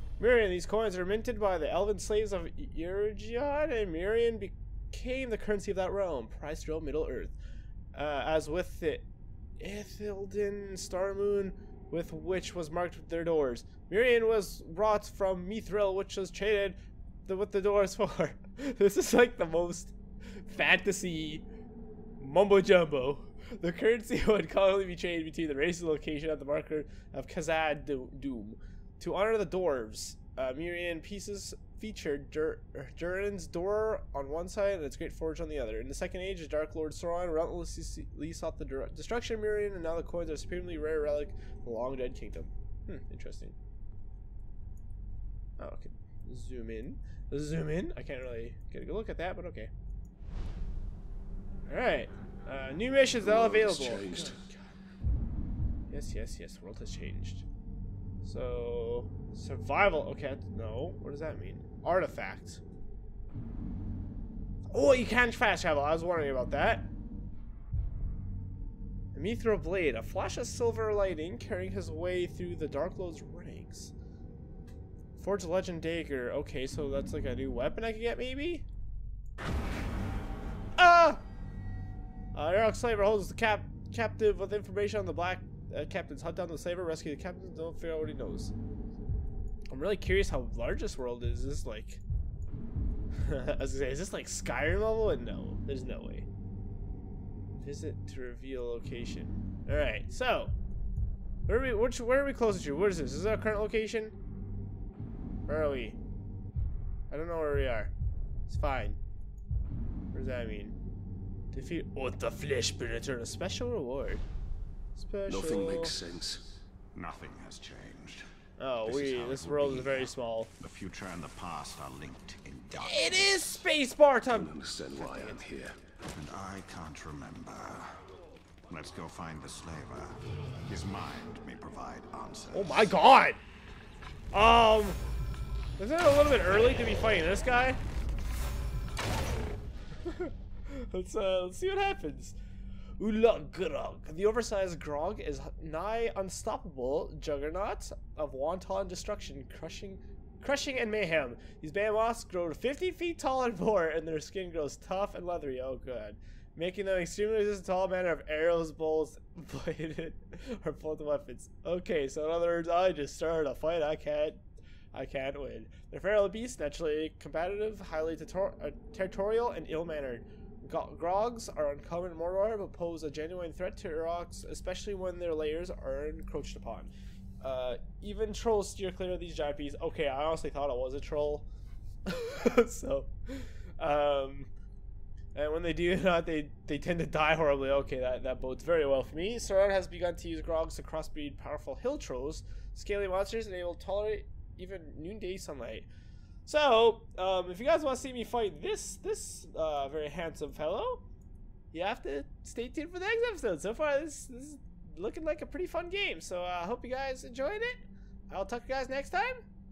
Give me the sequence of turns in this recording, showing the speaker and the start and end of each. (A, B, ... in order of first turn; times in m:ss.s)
0:00.2-0:07.4 A
0:07.9-0:09.1 A
0:09.6-0:21.4 A
0:22.2-0:43.6 A
0:45.6-0:49.7 A
0:51.7-0:54.6 A
0:53.2-0:54.4 B
0:55.9-0:57.4 A
0:58.2-1:02.6 A
1:04.7-1:06.9 A
1:09.1-1:13.9 A
1:15.2-1:18.6 A
1:20.8-1:21.2 A
1:22.3-1:28.5 A
1:29.7-1:32.0 A
1:33.2-1:36.3 A
1:37.6-1:40.5 A
1:41.5-1:44.1 A
1:45.5-1:46.0 A
1:47.1-1:47.9 A
1:48.5-1:49.0 A
1:50.1-1:50.8 A
1:51.5-1:54.2 A
1:55.0-1:56.0 A
1:55.3-1:56.5 B
1:56.9-1:58.2 C
1:58.6-2:00.5 A
1:58.8-2:03.5 C
2:02.7-2:05.4 A
2:04.3-2:05.8 B
2:06.1-2:08.0 C
2:08.7-2:12.9 C
2:12.5-2:13.4 A
2:14.3-2:15.0 A
2:15.8-2:17.8 A
2:20.0-2:22.4 A
2:23.0-2:44.4 A
2:44.9-3:01.5 A
3:02.0-3:04.5 A
3:05.3-3:15.9 A
3:16.4-3:21.0 A
3:21.7-3:29.4 A